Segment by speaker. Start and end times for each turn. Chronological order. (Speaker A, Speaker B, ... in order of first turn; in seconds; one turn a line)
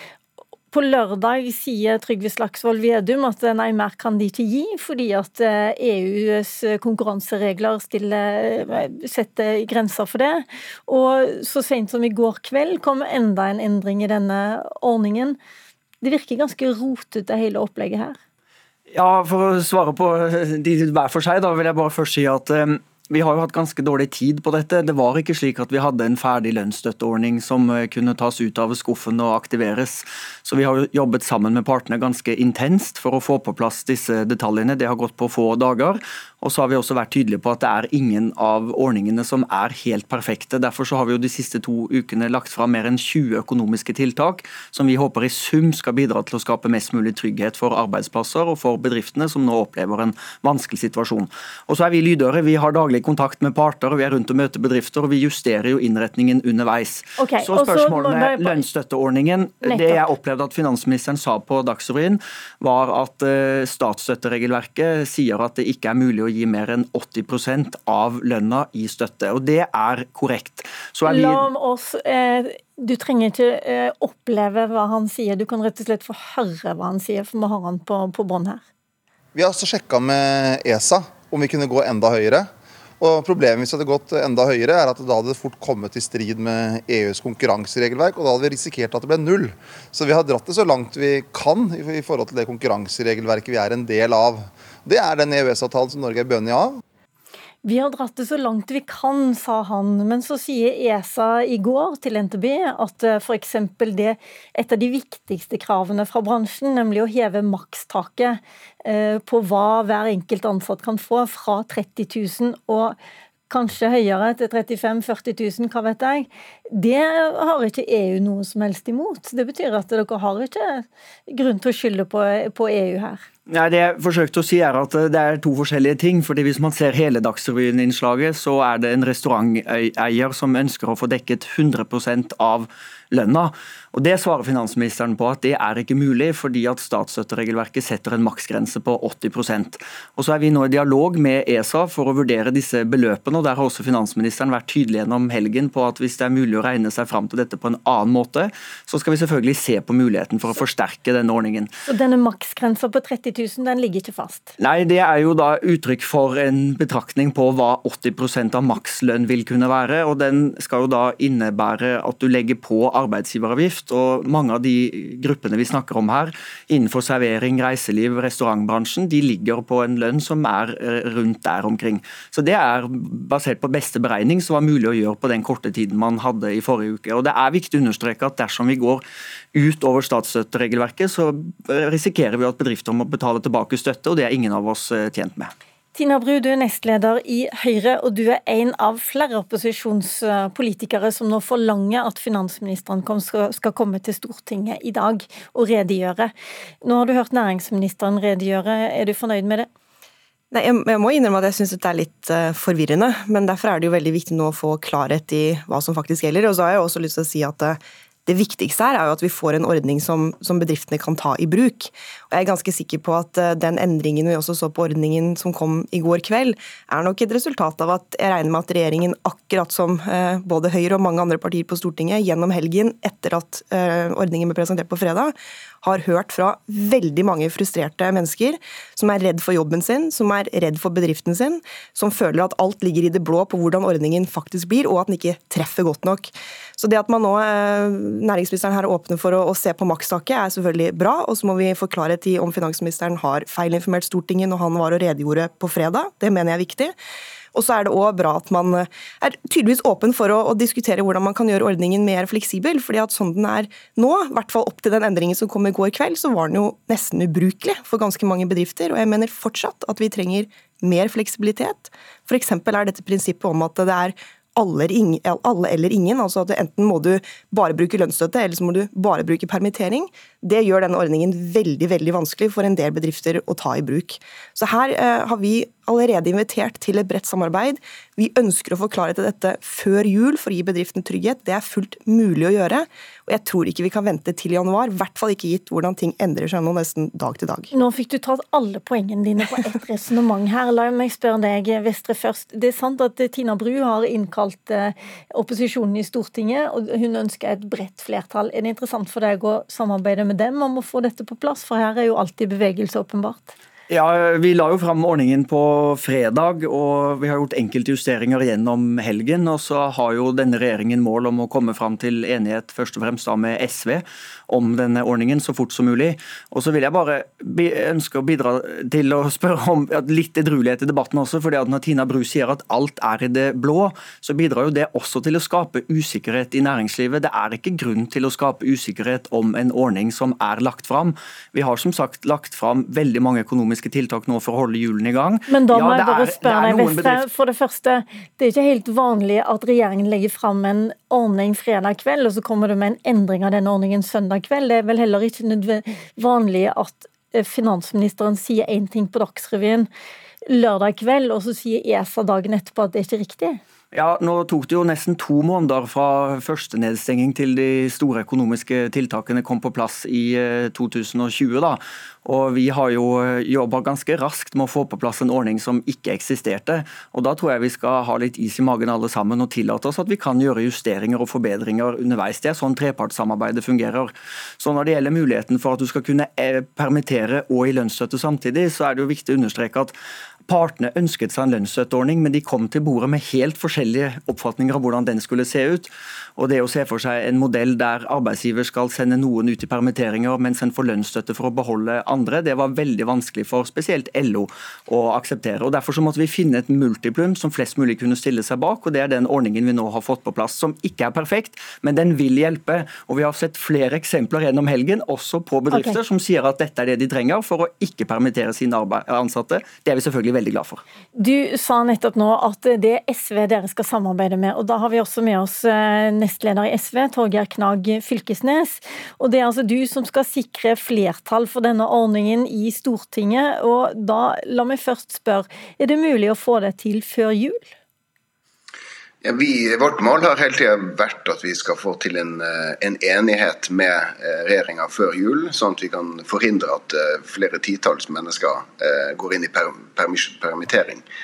Speaker A: 0.7-15.4
Speaker A: 16.0-18.2
Speaker B: 18.9-71.5
Speaker A: 57.2-58.6
Speaker A: 59.6-60.0
Speaker A: 71.0-78.6
Speaker C: 79.3-82.5
Speaker C: 83.0-96.8
Speaker A: 97.6-113.0
Speaker A: 113.5-123.2
Speaker B: 123.5-151.7
Speaker A: 151.8-154.5
Speaker B: 154.6-179.0
Speaker B: 179.5-185.5
Speaker A: 185.9-196.3
Speaker A: 196.8-199.7
Speaker D: 200.5-246.9
Speaker D: 247.5-287.7
Speaker A: 287.7-303.5
Speaker B: 303.9-337.2
Speaker A: 335.5-349.9
Speaker A: 350.5-353.6
Speaker B: 353.9-379.9
Speaker B: 380.5-410.8
Speaker A: 405.7-406.0
Speaker A: 411.1-427.7
Speaker E: 429.2-441.0